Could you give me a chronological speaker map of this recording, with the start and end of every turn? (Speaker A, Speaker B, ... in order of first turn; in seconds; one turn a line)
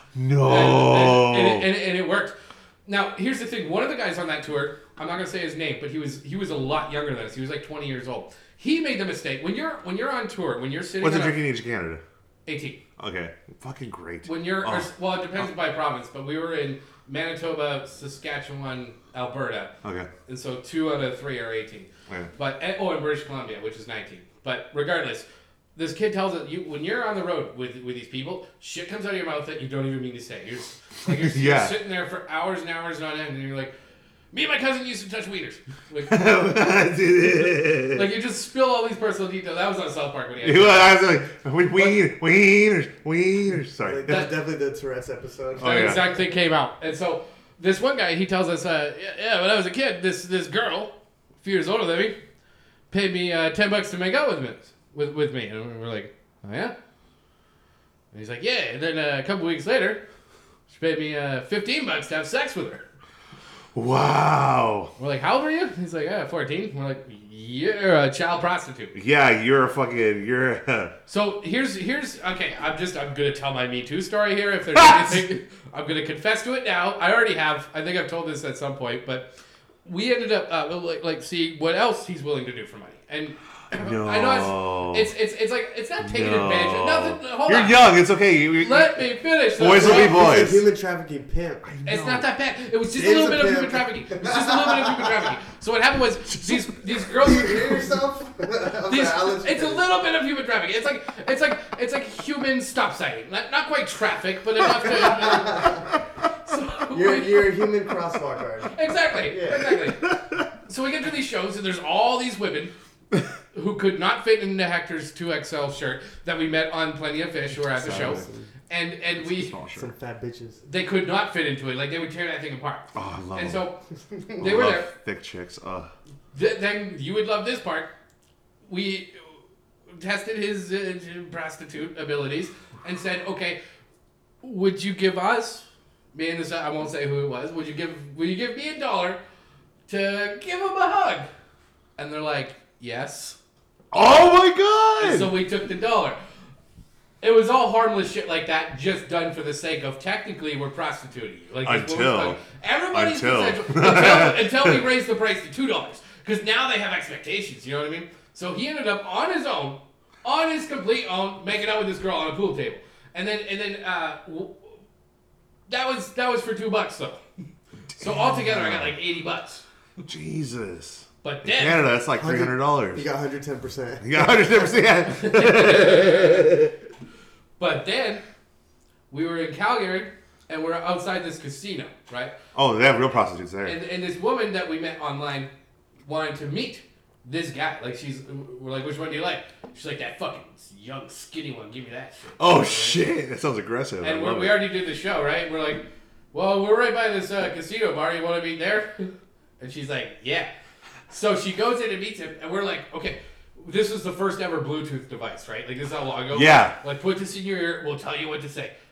Speaker A: 0.1-1.7
Speaker B: 0.4-2.4
Speaker B: 2.9-11.4
Speaker A: 11.0-12.0
Speaker B: 12.5-12.8
Speaker A: 13.0-14.9
Speaker B: 14.2-19.7
Speaker A: 19.8-20.1
Speaker B: 20.3-33.7
Speaker A: 31.1-31.8
Speaker B: 34.3-36.2
Speaker A: 36.1-38.1
Speaker B: 37.9-41.0
Speaker A: 40.4-44.3
Speaker C: 43.8-46.2
Speaker B: 44.1-44.3
Speaker A: 45.6-46.0
Speaker B: 45.6-52.2
Speaker B: 52.9-56.7
Speaker B: 58.1-60.0
Speaker B: 60.7-62.8
Speaker A: 63.8-64.9
Speaker B: 65.0-68.9
Speaker A: 68.9-70.9
Speaker B: 71.1-79.3
Speaker A: 74.7-75.2
Speaker B: 79.8-87.9
Speaker A: 83.7-85.1
Speaker A: 86.0-90.7
Speaker B: 88.5-90.4
Speaker C: 89.6-91.7
Speaker A: 91.6-92.3
Speaker B: 91.8-97.8
Speaker C: 92.9-95.2
Speaker A: 96.3-96.7
Speaker C: 97.1-99.8
Speaker B: 98.9-105.9
Speaker C: 104.9-105.9
Speaker B: 106.4-107.6
Speaker C: 106.9-109.8
Speaker B: 108.7-110.1
Speaker A: 110.0-110.5
Speaker B: 110.7-112.7
Speaker B: 113.5-119.5
Speaker A: 117.7-118.3
Speaker C: 117.8-118.5
Speaker A: 119.2-119.9
Speaker C: 119.8-120.6
Speaker B: 120.7-123.8
Speaker A: 122.9-123.6
Speaker B: 124.4-124.9
Speaker A: 124.4-125.9
Speaker B: 126.3-127.9
Speaker B: 128.7-129.4
Speaker B: 129.9-133.6
Speaker B: 134.4-139.2
Speaker B: 139.9-141.3
Speaker B: 142.0-143.4
Speaker A: 143.9-145.3
Speaker B: 145.0-146.2
Speaker B: 147.2-164.7
Speaker A: 151.6-152.4
Speaker A: 152.9-154.8
Speaker B: 165.7-167.2
Speaker B: 168.0-169.6
Speaker A: 168.0-168.9
Speaker A: 170.1-173.1
Speaker B: 171.2-171.8
Speaker C: 172.2-174.8
Speaker A: 174.0-176.7
Speaker B: 175.1-176.7
Speaker B: 177.6-178.2
Speaker B: 179.1-182.3
Speaker A: 182.5-183.8
Speaker B: 183.6-185.5
Speaker B: 186.1-193.0
Speaker A: 192.4-194.6
Speaker B: 194.0-200.5
Speaker B: 201.1-208.7
Speaker A: 206.3-206.8